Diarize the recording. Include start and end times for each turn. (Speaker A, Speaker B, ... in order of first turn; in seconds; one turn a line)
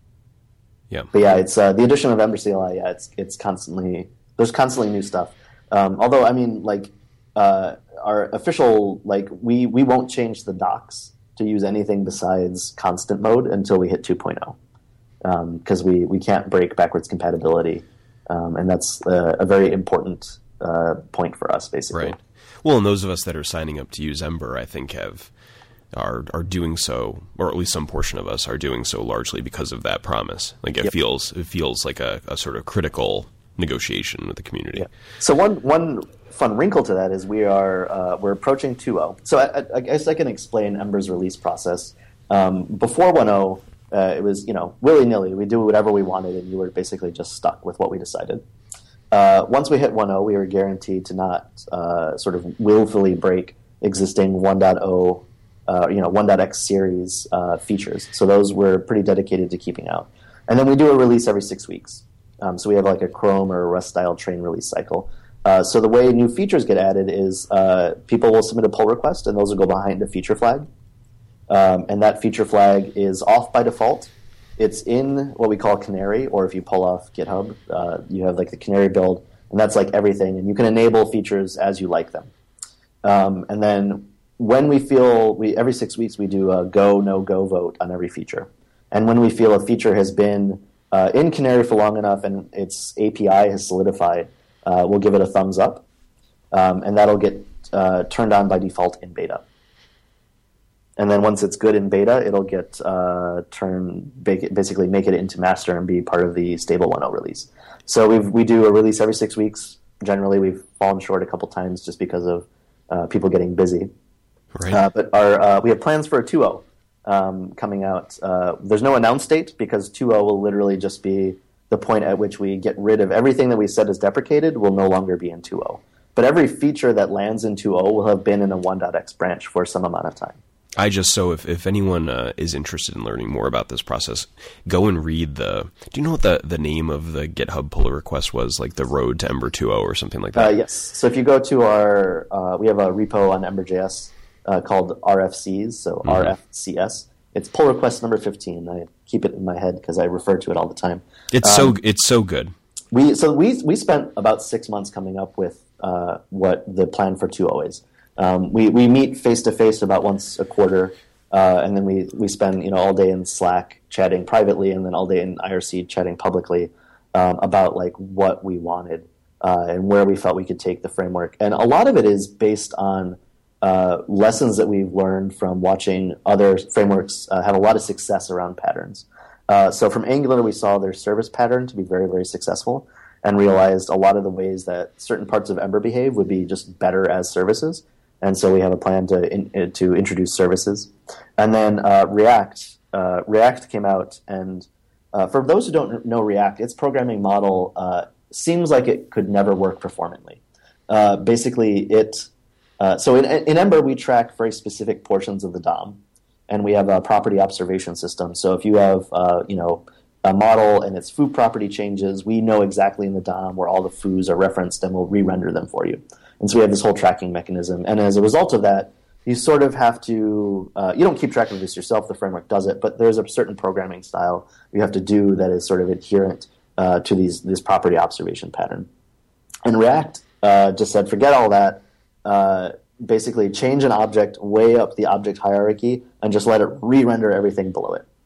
Speaker A: 1.1-14.6
Speaker A: 15.2-22.2
Speaker B: 21.9-25.3
Speaker B: 25.9-34.9
Speaker A: 34.8-48.5
Speaker A: 49.1-70.7
Speaker A: 71.5-82.3
Speaker A: 83.0-95.8
Speaker A: 96.5-99.5
Speaker A: 101.0-113.9
Speaker B: 114.5-114.8
Speaker A: 114.7-130.4
Speaker B: 130.8-140.5
Speaker A: 140.3-151.8
Speaker B: 146.1-146.3
Speaker B: 151.3-152.5
Speaker A: 152.9-202.3
Speaker A: 202.8-228.9
Speaker A: 229.7-238.1